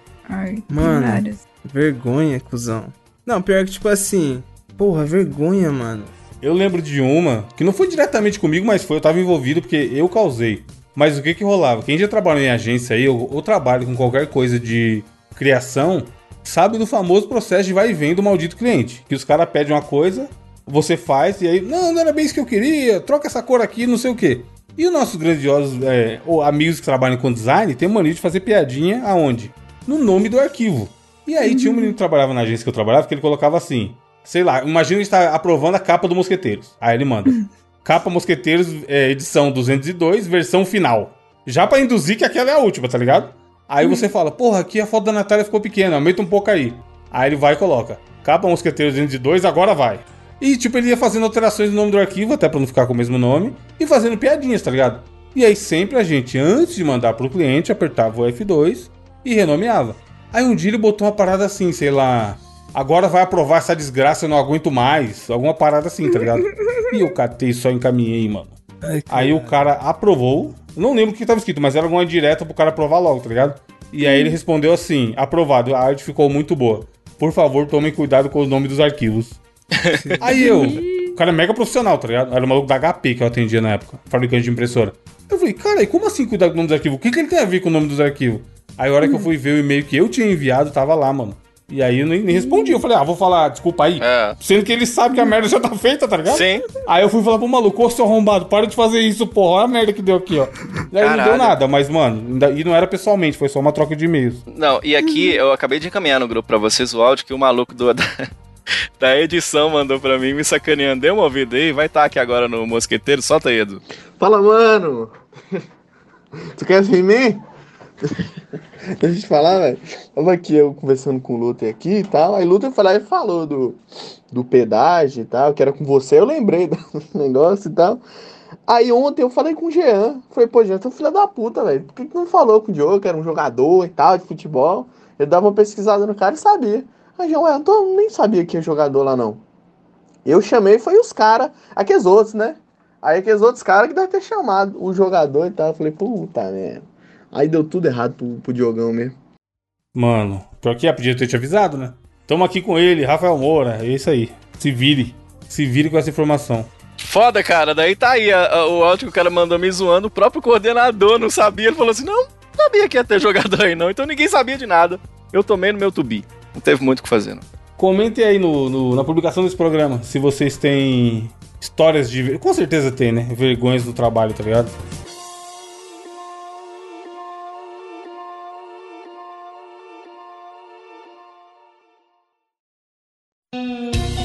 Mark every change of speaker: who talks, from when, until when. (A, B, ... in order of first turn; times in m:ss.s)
0:00.3-0:01.4 A
0:00.7-0:06.1 B
0:06.4-1:08.6 C
0:31.4-0:31.9 A
1:08.8-1:09.6 B
1:09.1-1:19.4 C
1:14.0-1:14.3 A
1:19.8-1:20.0 D
1:20.2-1:44.4 C
1:20.3-1:21.1 A
1:32.5-1:32.7 A
1:34.0-1:34.4 D
1:36.3-1:36.7 D
1:41.0-1:41.6 D
1:44.5-1:48.3 D
1:49.0-1:53.8 D
1:54.2-1:55.1 E
1:56.5-1:57.4 E
1:59.0-2:03.8 E
2:04.3-2:08.0 E
2:08.7-2:19.4 E
2:20.2-2:29.1 E
2:29.9-2:36.7 C
2:37.0-2:47.4 D
2:47.8-2:54.8 C